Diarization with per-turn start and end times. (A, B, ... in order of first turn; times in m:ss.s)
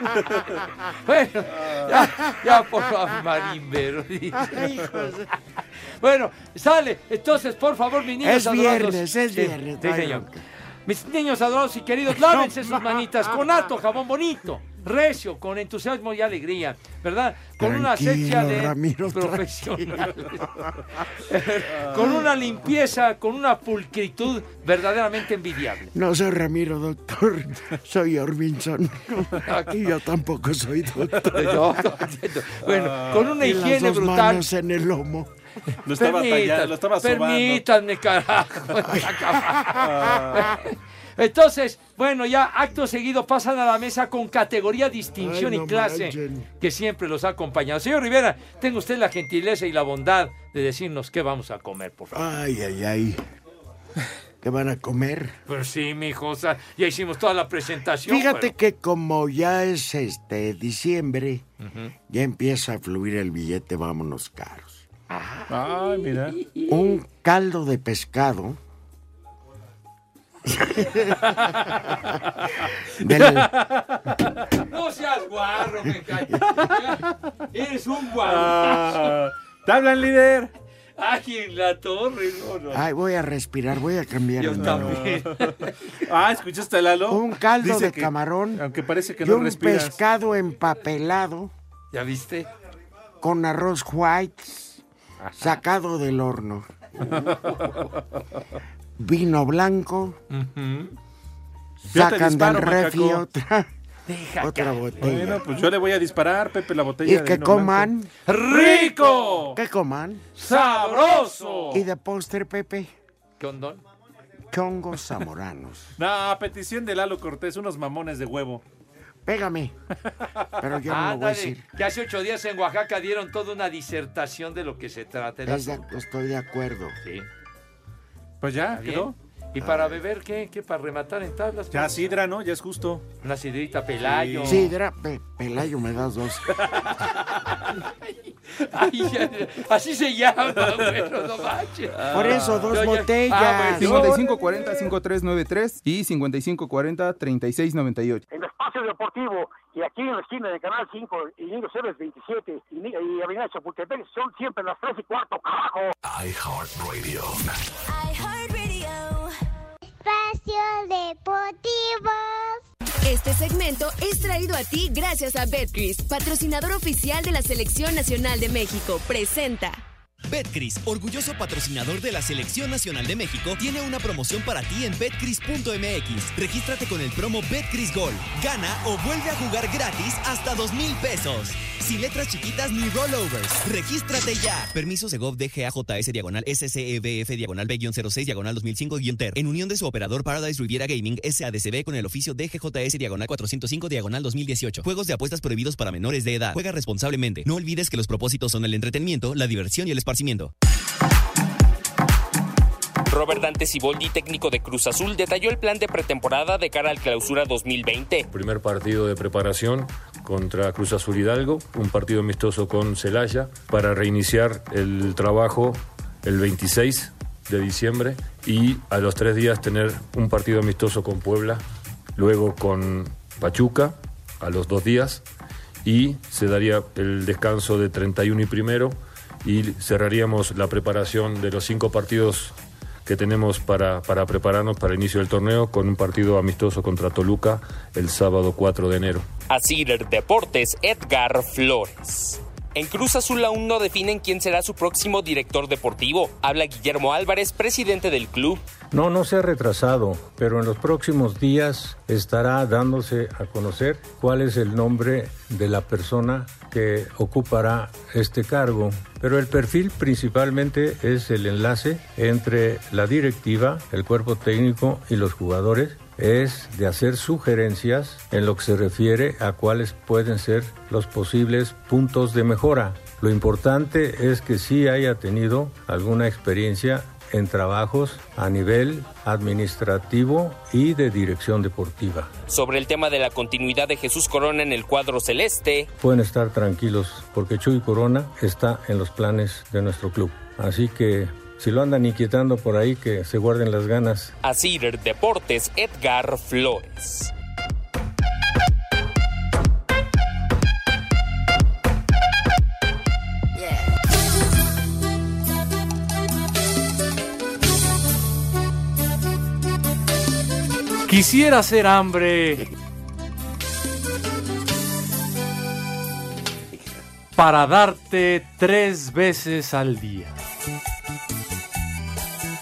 0:00.2-0:00.6 A
0:01.0-0:05.0 B
0:01.6-0:01.9 A
0:02.0-0:02.5 C
0:04.4-0:05.3 C
0:06.0-0:10.2 B
0:08.2-0:10.4 C
0:10.9-0:20.6 B
0:12.2-0:13.1 C
0:17.6-0:20.7 C
0:21.2-0:25.9 B
0:21.9-0:22.2 C
0:25.9-0:31.6 C
0:29.4-0:29.7 B
0:31.2-0:34.4 B
0:32.6-0:33.3 A
0:33.4-0:35.3 C
0:35.9-0:37.6 A
0:36.0-0:52.2 B
0:38.9-0:39.6 C
0:39.7-0:40.5 A
0:45.2-0:46.5 C
0:52.1-0:53.2 C
0:54.4-0:55.4 C
0:55.5-0:58.5 B
0:58.1-1:01.4 C
1:01.6-1:01.9 B
1:02.1-1:04.9 C
1:05.1-1:07.0 B
1:05.5-1:06.4 A
1:06.7-1:08.6 C
1:10.4-1:11.7 C
1:11.2-1:11.8 B
1:13.0-1:13.5 C
1:13.6-1:14.0 A
1:14.6-1:19.1 B
1:18.2-1:20.5 A
1:21.0-1:22.8 B
1:22.7-1:25.2 C
1:24.4-1:25.7 B
1:24.6-1:30.0 A
1:27.1-1:28.6 C
1:29.2-1:31.5 C
1:31.9-1:32.5 B
1:33.2-1:34.8 C
1:35.4-1:36.7 C
1:37.1-1:37.9 B
1:39.0-1:40.2 C
1:40.3-1:40.7 B
1:40.5-1:40.9 A
1:41.8-1:43.7 C
1:41.9-1:43.2 A
1:44.1-1:44.8 B
1:44.4-1:45.4 C
1:45.0-1:47.9 A
1:47.0-1:48.1 C
1:48.3-1:49.5 B
1:48.5-1:49.6 A
1:49.5-1:50.2 C
1:50.4-1:51.8 B
1:50.4-1:51.8 A
1:51.7-1:52.9 C
1:53.4-1:53.8 B
1:54.5-1:55.9 C
1:56.0-1:58.6 A
1:59.2-1:59.7 C
2:00.6-2:01.6 C
2:00.9-2:05.9 B
2:05.4-2:07.0 C
2:08.4-2:09.2 A
2:08.7-2:12.0 B
2:09.6-2:10.0 C
2:11.7-2:13.0 A
2:13.2-2:14.7 B
2:14.0-2:14.7 A
2:14.4-2:16.5 C
2:16.7-2:24.2 B
2:22.0-2:22.7 A
2:22.1-2:24.2 C
2:23.8-2:28.2 D
2:28.3-2:35.9 E
2:39.8-2:42.6 F
2:43.0-2:49.8 G
2:50.3-3:20.5 H
3:23.0-3:28.3 I
3:28.3-3:41.6 J
3:42.2-3:45.2 J
3:45.8-3:52.5 J
3:53.0-3:59.3 J
3:59.5-4:08.6 I
4:08.9-4:42.3 K
4:42.5-4:45.9 I
4:46.0-4:54.3 K
4:54.4-4:57.3 I